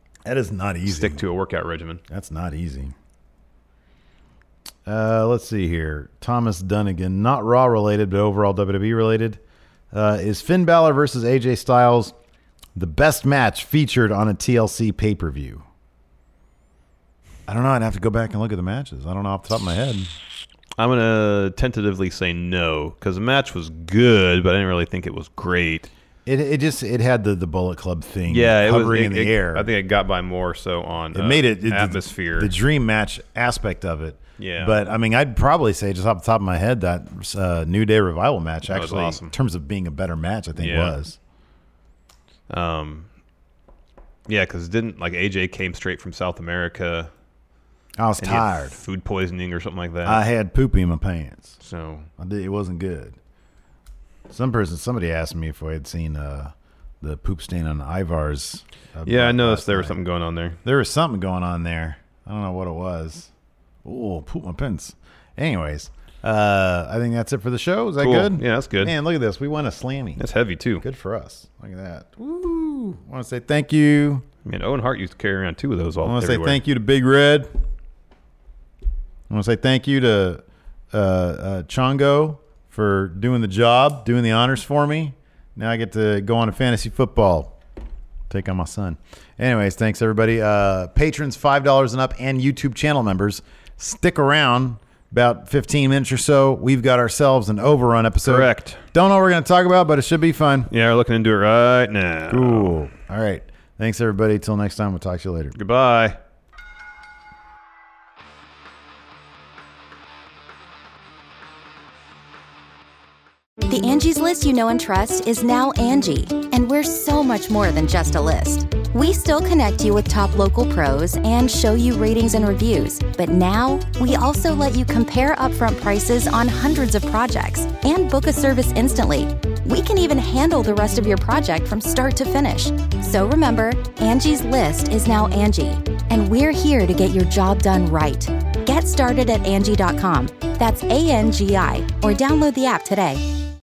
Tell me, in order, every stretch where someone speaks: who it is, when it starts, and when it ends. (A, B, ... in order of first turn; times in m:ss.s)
0:00.3-0:01.2 A
0:00.9-0:02.0 B
0:02.1-0:02.9 A
0:04.8-0:09.4 A
0:09.9-0:12.1 A
0:12.8-0:15.7 A
0:17.5-0:20.1 A
0:20.8-0:25.9 B
0:26.3-0:29.7 A
0:28.3-0:32.5 B
0:31.1-0:41.2 A
0:34.4-0:34.8 B
0:38.7-0:39.3 B
0:40.6-0:41.0 B
0:42.5-0:43.1 B
0:44.3-0:47.1 B
0:48.0-0:48.8 A
0:48.2-0:50.2 B
0:50.0-0:51.6 A
0:51.6-0:52.1 B
0:52.2-0:53.2 A
0:54.3-1:00.0 A
0:59.1-1:00.6 B
1:00.6-1:03.3 A
1:03.8-1:10.2 A
1:08.0-1:09.0 B
1:10.2-1:10.8 B
1:10.8-1:14.2 A
1:14.4-1:16.6 B
1:16.0-1:17.5 A
1:19.3-1:27.6 A
1:28.3-1:40.7 A
1:38.3-1:38.8 B
1:40.7-1:42.8 B
1:42.3-1:45.6 A
1:45.6-1:46.2 B
1:53.7-2:23.2 C